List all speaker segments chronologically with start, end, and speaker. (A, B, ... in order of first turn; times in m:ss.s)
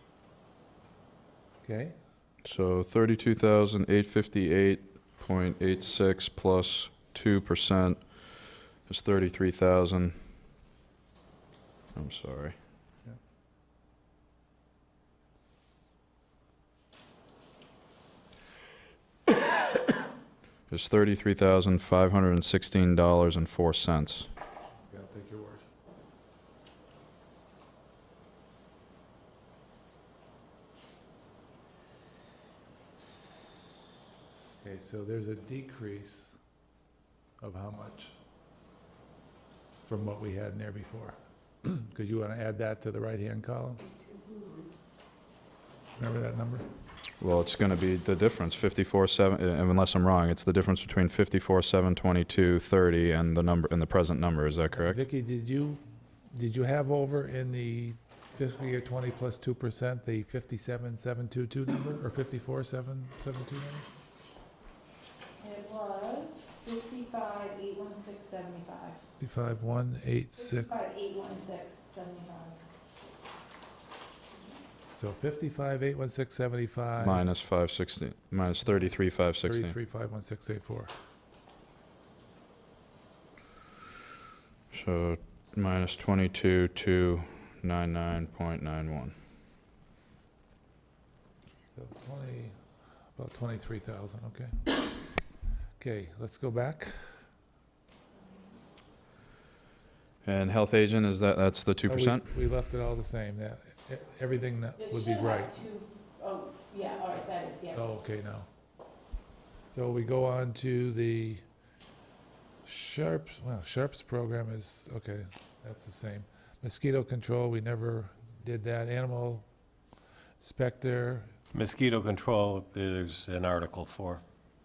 0:01.6-0:01.9 A
0:02.4-0:10.2 B
0:11.9-0:12.5 B
0:20.7-0:24.3 B
0:24.9-0:25.6 A
0:34.6-0:36.4 A
0:37.4-0:38.1 A
0:39.8-0:43.8 A
0:46.0-0:46.6 A
0:47.2-0:55.0 B
0:54.7-0:55.8 A
0:56.3-1:03.9 A
1:05.4-1:09.0 C
1:09.2-1:10.7 A
1:10.4-1:12.6 C
1:15.0-1:17.3 A
1:17.0-1:19.7 B
1:18.7-1:20.9 A
1:24.7-1:29.1 B
1:31.8-1:32.6 A
1:33.1-1:34.7 A
1:35.8-1:37.0 A
1:40.2-1:42.4 B
1:41.9-1:45.6 A
1:44.8-1:47.8 C
1:47.7-1:48.5 A
1:49.7-1:51.4 A
1:52.6-1:59.4 A
2:00.4-2:01.3 A
2:01.5-2:04.2 D